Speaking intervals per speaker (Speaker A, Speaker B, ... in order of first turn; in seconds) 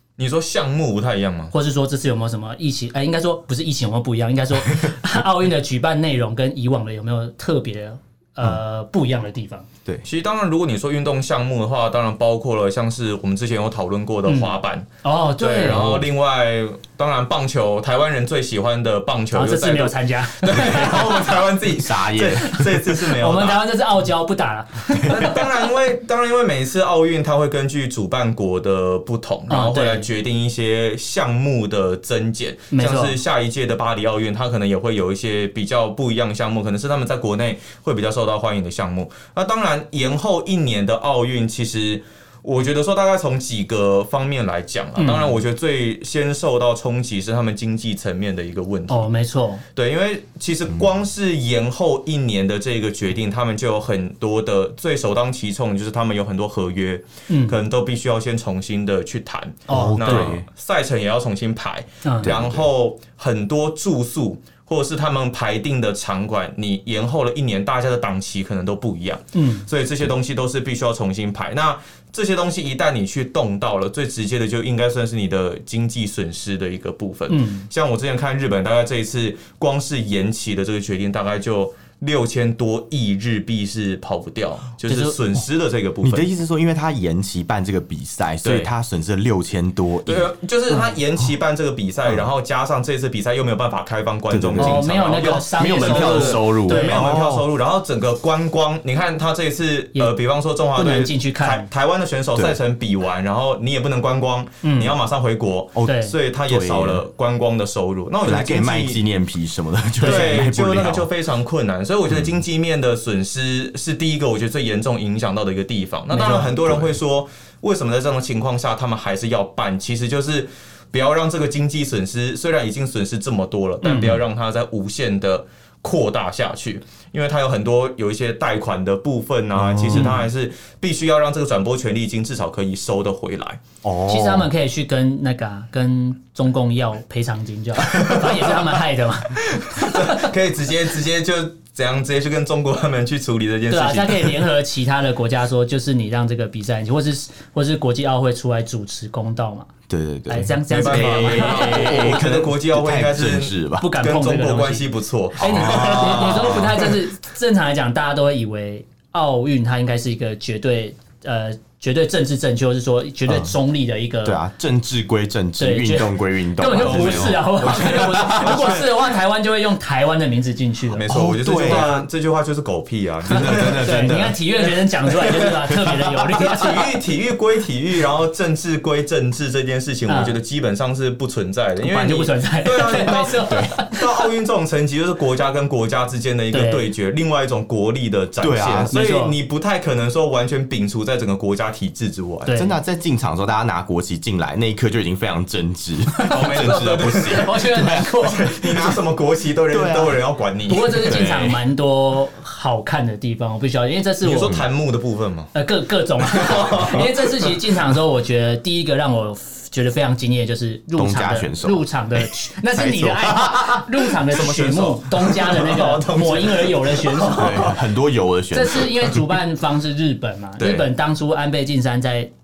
Speaker A: 0.2-1.5, 10.1-14.9, 15.4-23.7, 25.1-49.1, 49.8-86.3, 88.4-88.7, 90.1-109.0, 110.0-133.6, 137.9-138.3, 139.4-144.5, 150.7-156.8, 166.8-168.9, 170.9-174.2, 175.1-175.6, 176.3-192.5, 196.3-197.6, 198.3-201.1, 204.2-205.5, 206.3-207.5, 214.3-217.7, 220.6-220.9
Speaker B: 1.5-9.7, 14.3-15.9, 19.3-21.3, 22.4-25.5, 29.5-30.1, 32.7-33.2, 45.0-45.4, 48.9-49.6, 57.3-57.6, 59.7-60.4, 62.0-62.4, 69.3-69.7, 77.3-77.7, 84.9-85.2, 94.6-97.1, 100.8-101.7, 104.6-105.0, 105.8-106.2, 110.0-110.5, 116.1-116.5, 123.8-124.2, 129.9-130.2, 134.1-140.3, 143.7-149.7, 150.3-152.2, 153.8-164.4, 165.6-171.1, 171.7-172.0, 173.3-177.0, 180.1-180.4, 181.8-184.0, 186.5-186.9, 188.9-189.3, 192.5-192.8, 196.3-198.5, 200.7-204.6, 205.5-217.8, 218.5-222.3
Speaker C: 4.7-4.9, 15.7-16.1, 20.6-22.6, 59.7-60.5, 62.2-62.7, 86.0-90.8, 94.3-97.5, 105.8-107.0, 108.2-111.1, 116.3-117.0, 129.6-130.3, 133.8-134.5, 149.9-154.0, 155.4-156.9, 163.3-163.6, 164.2-168.9, 171.1-171.9, 173.3-174.4, 175.5-176.4, 183.5-183.7, 188.4-188.9, 192.5-199.0, 199.7-200.2, 201.0-201.6, 211.0-214.1, 217.2-219.2